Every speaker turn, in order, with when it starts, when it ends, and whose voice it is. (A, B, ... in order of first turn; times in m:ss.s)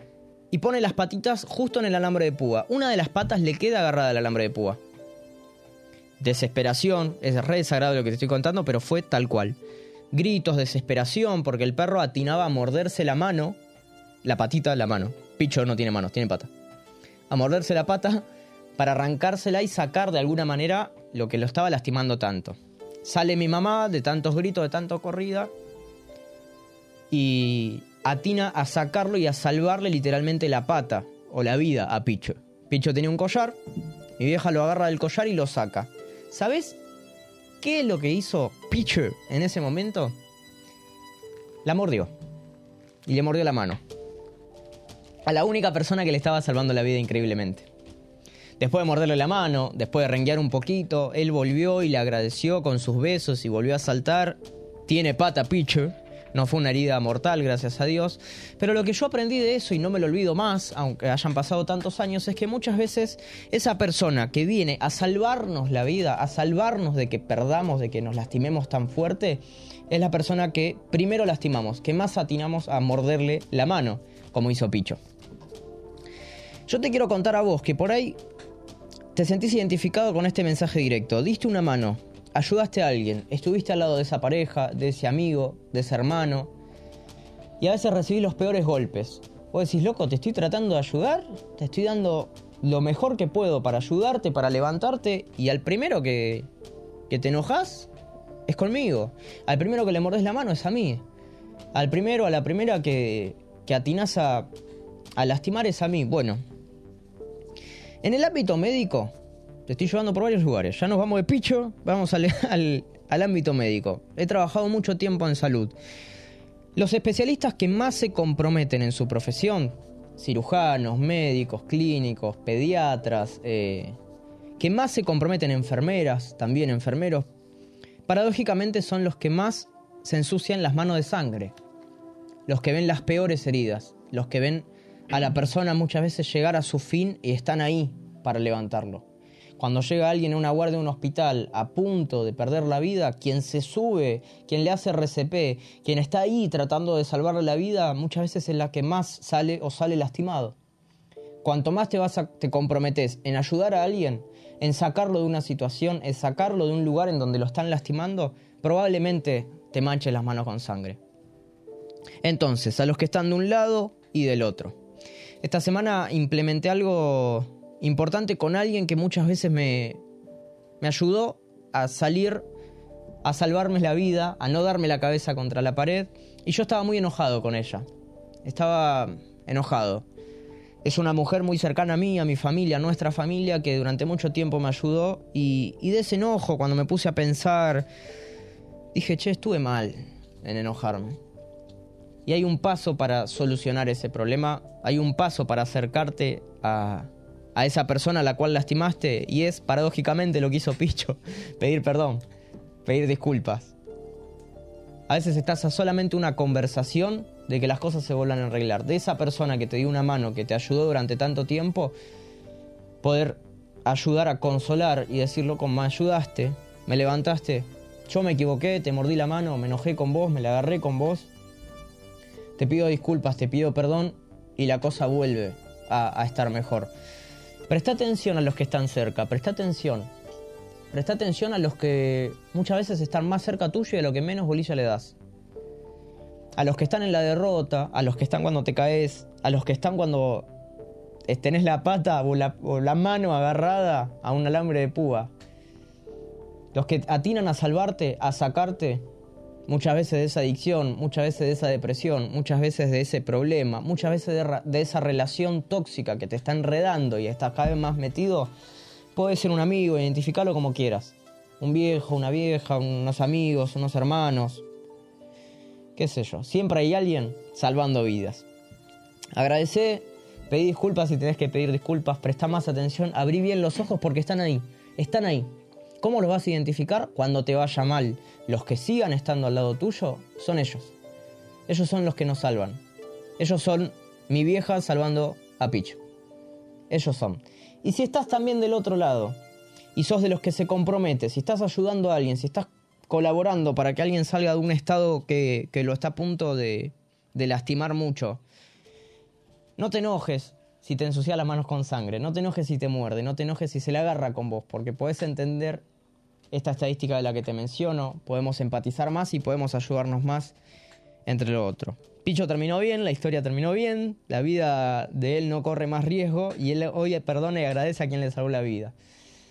0:00.5-0:04.8 A
0:06.2-0:09.6 A
0:10.1-0:13.6 A
0:14.2-0:16.5 A
0:17.3-0:18.2 A
0:18.8-0:25.5 A
0:27.1-0:33.6 A
0:34.2-0:36.8 A
0:37.6-0:40.1 A
0:41.6-0:42.1 A
0:43.0-0:43.8 A
0:45.2-0:47.7 A
0:48.6-1:15.0 A
1:16.7-1:18.2 A
1:19.1-1:26.5 A
1:27.6-1:36.5 A
1:37.1-1:37.9 A
1:38.5-1:41.0 A
1:41.7-1:44.5 A
1:45.2-1:46.4 A
1:48.0-1:49.1 A
1:49.7-1:55.7 A
1:56.8-2:04.0 A
2:04.6-2:07.3 A
2:08.1-2:11.5 A
2:12.5-2:19.0 A
2:19.6-2:30.6 A
2:31.4-2:41.0 A
2:42.2-2:44.8 A
2:45.4-2:50.0 A
2:50.8-2:52.5 A
2:53.2-2:57.9 A
2:58.4-3:00.0 A
3:00.8-3:07.9 A
3:08.9-3:11.2 A
3:12.2-3:22.2 A
3:22.8-3:23.7 A
3:25.1-3:31.9 A
3:33.0-3:41.3 A
3:42.6-3:46.9 A
3:47.7-3:50.1 A
3:50.9-3:55.1 A
3:56.5-4:00.5 A
4:01.3-4:05.3 A
4:06.7-4:09.0 A
4:09.7-4:18.5 A
4:19.1-4:24.6 A
4:26.0-4:28.4 A
4:29.3-4:40.9 A
4:41.7-4:42.8 A
4:43.4-4:46.0 A
4:46.9-4:49.4 A
4:49.9-4:58.4 A
4:59.8-5:05.8 A
5:06.5-5:10.5 A
5:11.2-5:18.9 A